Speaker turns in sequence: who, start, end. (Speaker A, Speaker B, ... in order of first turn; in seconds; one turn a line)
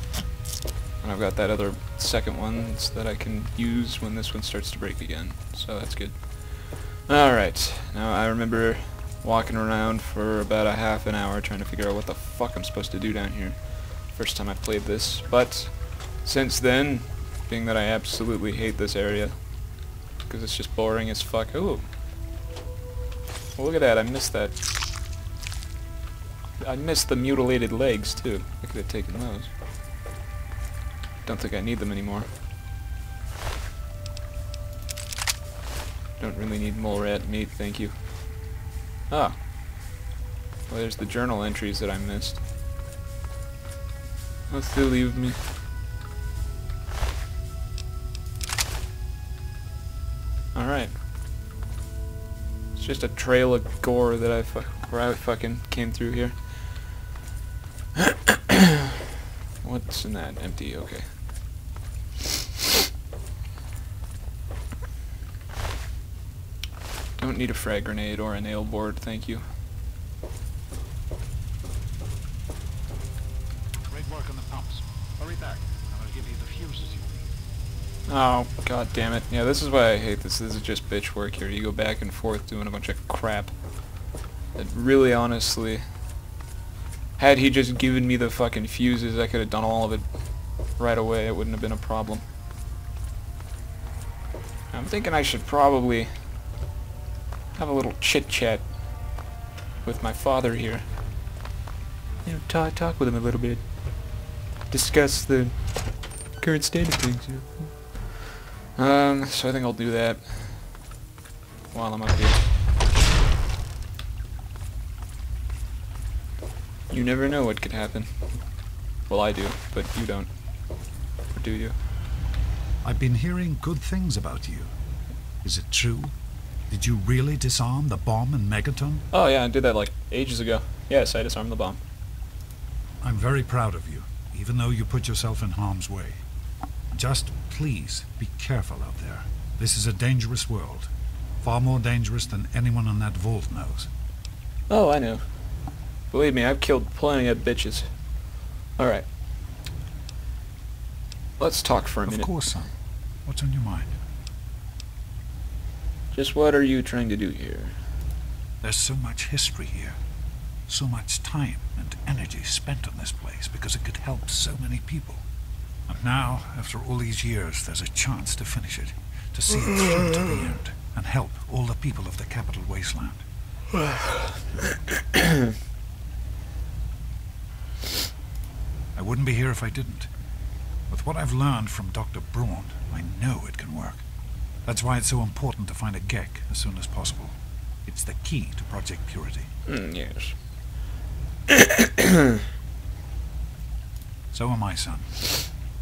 Speaker A: 1.0-19.3
Speaker A: 20.3-21.9
Speaker A: 23.6-24.6
Speaker A: 26.6-29.5
Speaker A: 31.2-32.3
Speaker A: 36.2-37.9
Speaker A: 39.1-39.4
Speaker A: 40.7-42.4
Speaker A: 44.5-45.4
Speaker A: 50.5-50.9
Speaker A: 52.7-56.4
Speaker A: 58.0-59.0
Speaker A: 59.6-61.1
Speaker A: 67.2-69.5
Speaker B: 73.9-77.3
Speaker A: 78.1-83.5
Speaker A: 84.5-85.8
Speaker A: 87.2-90.0
Speaker A: 90.8-92.2
Speaker A: 94.7-96.1
Speaker A: 97.5-98.7
Speaker A: 99.8-100.8
Speaker A: 102.2-103.6
Speaker A: 104.7-105.7
Speaker A: 106.4-107.7
Speaker A: 108.8-110.7
Speaker A: 111.7-112.4
Speaker A: 116.9-118.1
Speaker A: 119.1-120.3
Speaker A: 121.3-121.7
Speaker B: 122.8-124.7
Speaker B: 125.4-126.2
Speaker B: 126.7-129.0
Speaker A: 129.1-131.8
Speaker B: 133.0-136.2
Speaker B: 136.9-140.9
Speaker B: 141.4-143.9
Speaker A: 144.7-145.2
Speaker A: 146.1-147.9
Speaker A: 148.8-149.1
Speaker A: 151.4-152.3
Speaker B: 152.0-152.7
Speaker B: 153.2-153.9
Speaker A: 156.1-157.8
Speaker B: 158.6-160.0
Speaker B: 160.7-165.2
Speaker B: 165.9-173.2
Speaker A: 173.8-175.5
Speaker B: 179.0-180.1
Speaker B: 180.9-184.0
Speaker B: 184.7-189.5
Speaker A: 189.7-190.3
Speaker A: 191.5-192.4
Speaker B: 194.3-195.3